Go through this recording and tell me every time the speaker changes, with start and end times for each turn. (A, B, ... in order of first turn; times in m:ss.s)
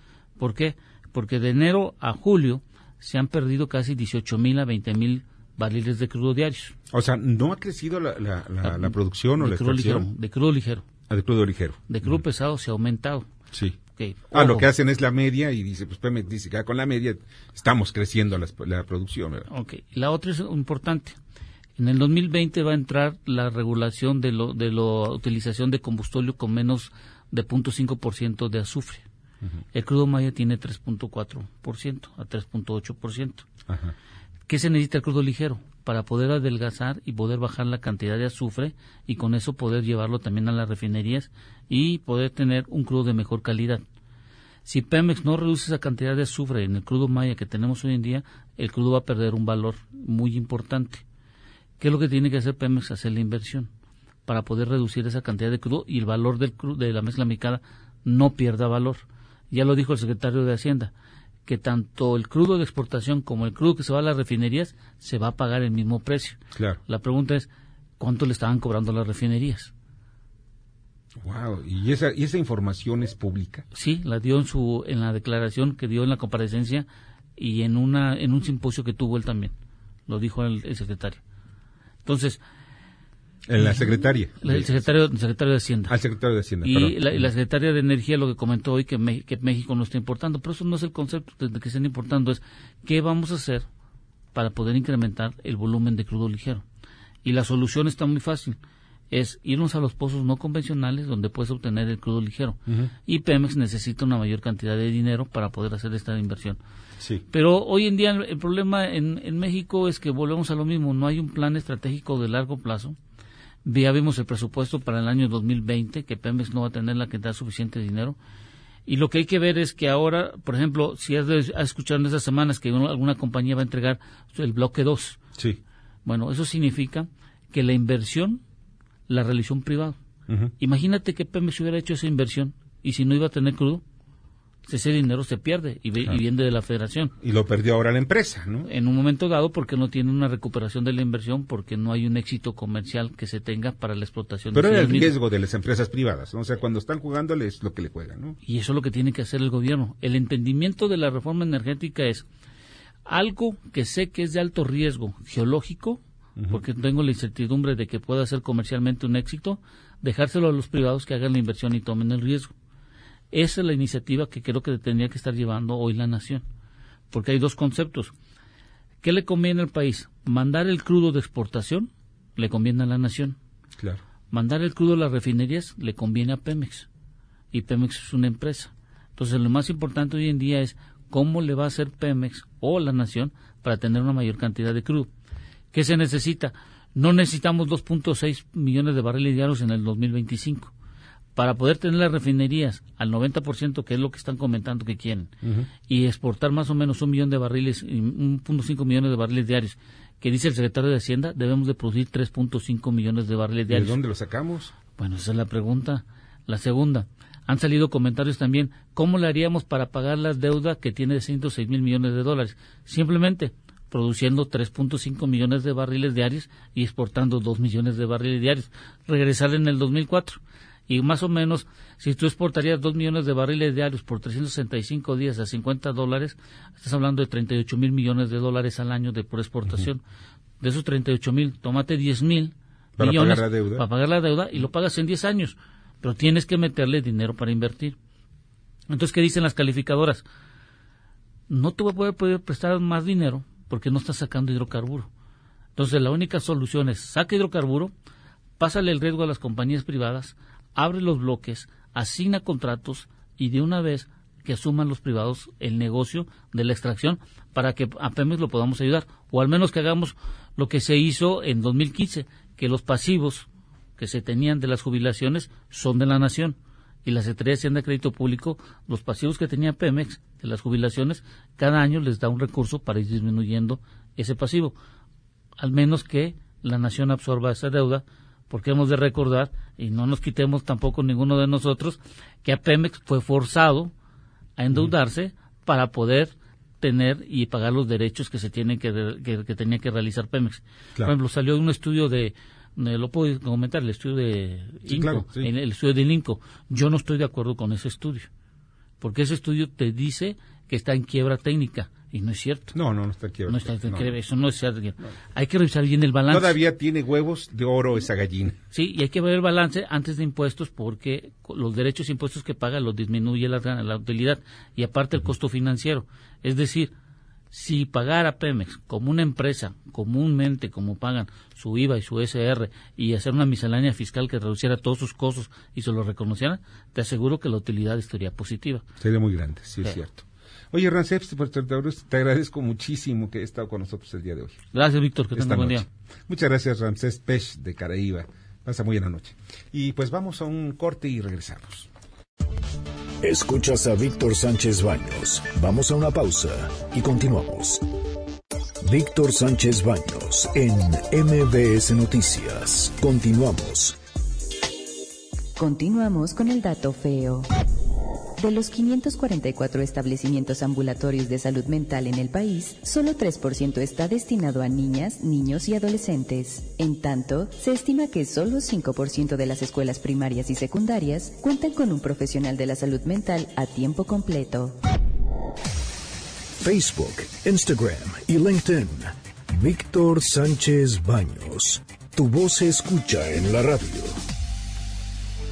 0:00.4-0:06.7 A
0:06.9-0:10.0 B
0:08.6-0:10.9 A
0:11.1-0:12.2 B
0:11.9-0:13.3 A
0:13.5-0:13.8 B
0:13.9-0:14.6 A
0:14.3-0:19.5 B
0:19.5-0:21.2 A
0:21.8-0:29.0 A
0:29.7-0:33.4 A
0:33.7-0:33.9 B
0:34.5-0:43.8 A
0:44.6-0:51.0 A
0:51.8-0:53.7 A
0:54.3-1:00.9 A
1:01.4-1:07.5 A
1:08.0-1:09.7 A
1:11.2-1:13.6 B
1:13.7-1:19.5 A
1:20.1-1:21.2 A
1:22.0-1:22.4 A
1:23.5-1:24.8 B
1:23.6-1:23.9 A
1:24.4-1:25.9 A
1:25.9-1:27.1 B
1:26.6-1:33.6 A
1:34.3-1:36.6 A
1:37.2-1:38.6 A
1:39.1-1:46.6 A
1:47.3-1:53.0 A
1:53.6-1:58.2 A
1:58.9-2:05.2 A
2:06.0-2:08.4 A
2:09.1-2:10.0 A
2:10.6-2:13.8 A
2:14.6-2:17.1 A
2:17.2-2:18.7 B
2:18.7-2:25.1 A
2:24.5-2:28.4 B
2:28.4-2:32.2 A
2:33.0-2:42.5 A
2:43.3-2:46.4 A
2:47.1-2:48.1 A
2:49.0-2:53.4 A
2:54.3-2:56.9 A
2:57.5-3:05.1 A
3:05.7-3:10.7 A
3:11.4-3:15.3 A
3:15.4-3:15.7 B
3:15.8-3:24.0 A
3:23.7-3:24.7 B
3:24.9-3:50.0 A
3:50.6-3:58.0 A
3:53.0-3:53.8 B
3:58.9-4:00.2 A
4:01.5-4:05.1 A
4:05.8-4:07.9 A
4:08.6-4:34.7 A
4:35.6-4:43.9 A
4:44.6-4:58.3 A
4:54.9-4:55.4 B
4:59.0-5:02.7 A
5:02.7-5:04.1 B
5:03.5-5:06.6 A
5:06.3-5:08.6 B
5:08.7-5:16.9 A
5:17.5-5:28.9 A
5:29.0-5:34.6 B
5:34.7-5:35.9 A
5:35.3-5:41.9 B
5:43.2-5:47.8 C
5:48.8-5:54.0 C
5:55.6-5:57.5 D
5:58.4-6:14.8 D
6:16.6-6:24.2 C